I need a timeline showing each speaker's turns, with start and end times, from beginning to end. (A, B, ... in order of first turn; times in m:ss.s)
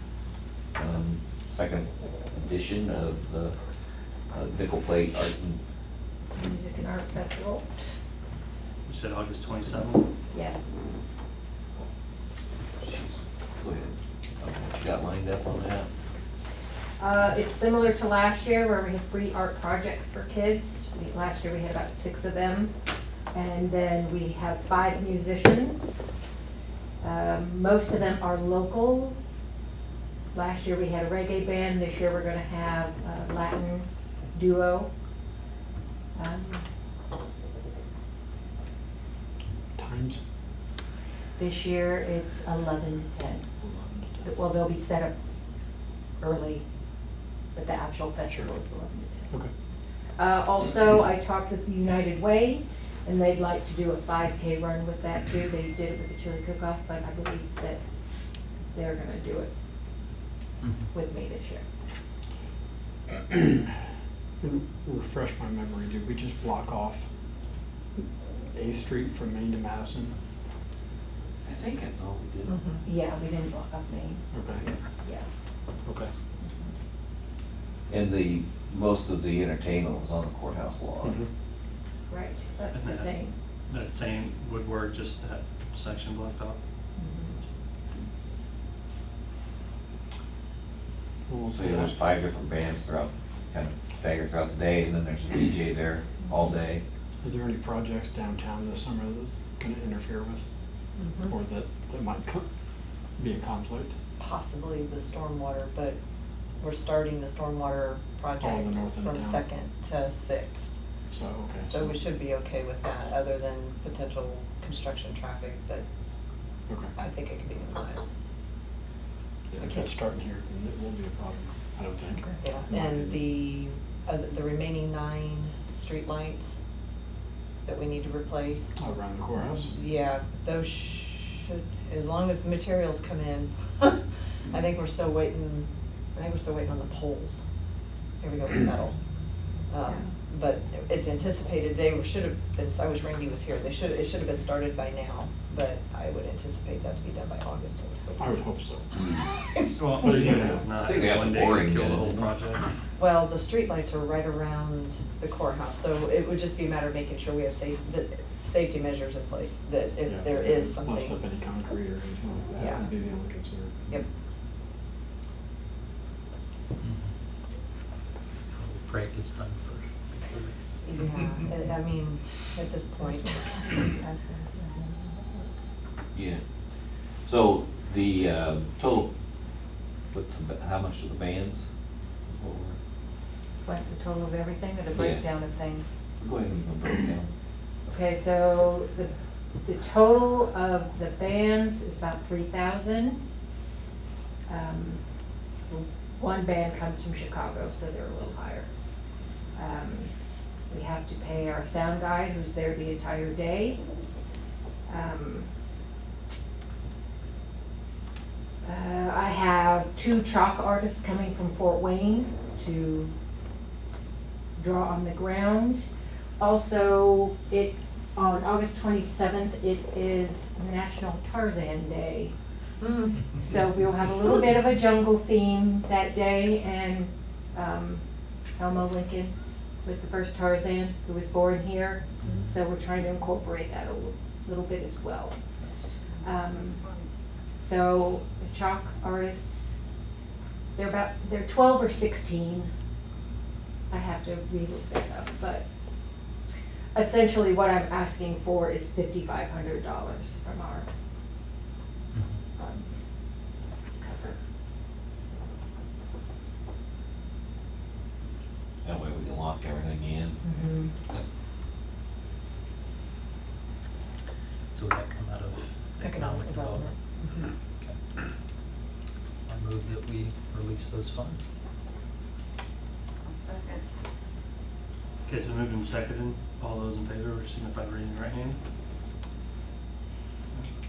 0:00.7-0:03.5 A
0:04.3-0:05.6 A
0:06.3-0:07.6 B
0:08.8-0:10.1 C
0:10.3-0:10.7 B
0:12.8-0:15.9 A
0:17.0-0:22.7 B
0:23.3-0:26.0 B
0:27.0-0:29.2 B
0:30.3-0:34.9 B
0:36.2-0:36.6 B
0:39.7-0:40.2 D
0:41.4-0:43.4 B
0:43.6-0:44.3 D
0:44.2-0:45.1 B
0:46.2-0:46.6 B
0:47.5-0:49.3 B
0:48.3-0:48.5 D
0:50.2-0:57.8 B
0:58.7-0:59.5 B
1:00.6-1:00.9 E
1:00.9-1:01.6 B
1:03.3-1:03.7 D
1:04.4-1:07.0 D
1:08.5-1:10.1 D
1:11.4-1:12.6 A
1:12.5-1:12.8 F
1:12.8-1:14.2 B
1:14.3-1:14.6 D
1:15.0-1:15.3 B
1:16.4-1:16.7 B
1:17.9-1:21.2 A
1:21.0-1:21.3 D
1:22.1-1:23.3 B
1:22.7-1:23.2 C
1:23.7-1:26.6 C
1:27.0-1:27.4 B
1:31.3-1:32.0 D
1:31.5-1:36.8 A
1:37.2-1:40.4 D
1:41.0-1:41.3 F
1:41.2-1:42.5 D
1:43.2-1:43.9 D
1:44.2-1:46.0 F
1:46.6-1:50.7 F
1:48.4-1:49.4 D
1:51.1-1:52.0 D
1:51.6-1:55.8 F
1:56.7-1:56.9 D
1:56.9-1:58.1 F
1:59.5-2:03.4 D
1:59.6-2:00.0 F
2:02.1-2:02.4 B
2:02.4-2:06.6 F
2:07.6-2:08.7 F
2:08.8-2:09.7 D
2:09.7-2:17.4 F
2:18.2-2:18.9 F
2:19.7-2:28.4 F
2:28.2-2:29.0 D
2:29.5-2:29.9 F
2:29.7-2:32.6 C
2:30.0-2:30.7 D
2:30.7-2:32.3 A
2:33.0-2:41.2 F
2:40.0-2:43.8 D
2:42.5-2:42.9 F
2:46.8-2:47.1 E
2:48.5-2:50.5 E
2:50.8-2:54.4 F
2:56.1-2:56.4 A
2:57.2-2:59.1 A
3:00.1-3:01.7 A
3:02.2-3:02.8 A
3:03.6-3:05.9 B
3:04.9-3:05.2 A
3:06.2-3:07.3 A
3:07.9-3:09.1 B
3:09.6-3:13.2 B
3:14.5-3:15.0 B
3:15.7-3:18.7 B
3:19.6-3:20.1 B
3:20.7-3:23.8 B
3:24.9-3:25.5 B
3:28.6-3:33.1 B
3:34.6-3:35.9 B
3:36.4-3:42.3 B
3:42.8-3:43.2 F
3:43.4-3:48.0 B
3:48.6-3:49.3 B
3:49.8-3:55.4 B
3:52.2-3:52.6 E
3:55.6-3:55.9 E
3:56.2-3:56.8 B
3:57.6-3:59.7 B
4:00.7-4:02.7 B
4:03.9-4:05.6 B
4:06.9-4:10.9 B
4:12.1-4:12.4 E
4:12.6-4:13.0 B
4:14.0-4:14.4 B
4:18.8-4:20.4 A
4:20.4-4:20.9 B
4:24.7-4:27.0 E
4:26.0-4:27.5 F
4:29.5-4:31.4 E
4:33.2-4:33.8 F
4:35.2-4:38.6 C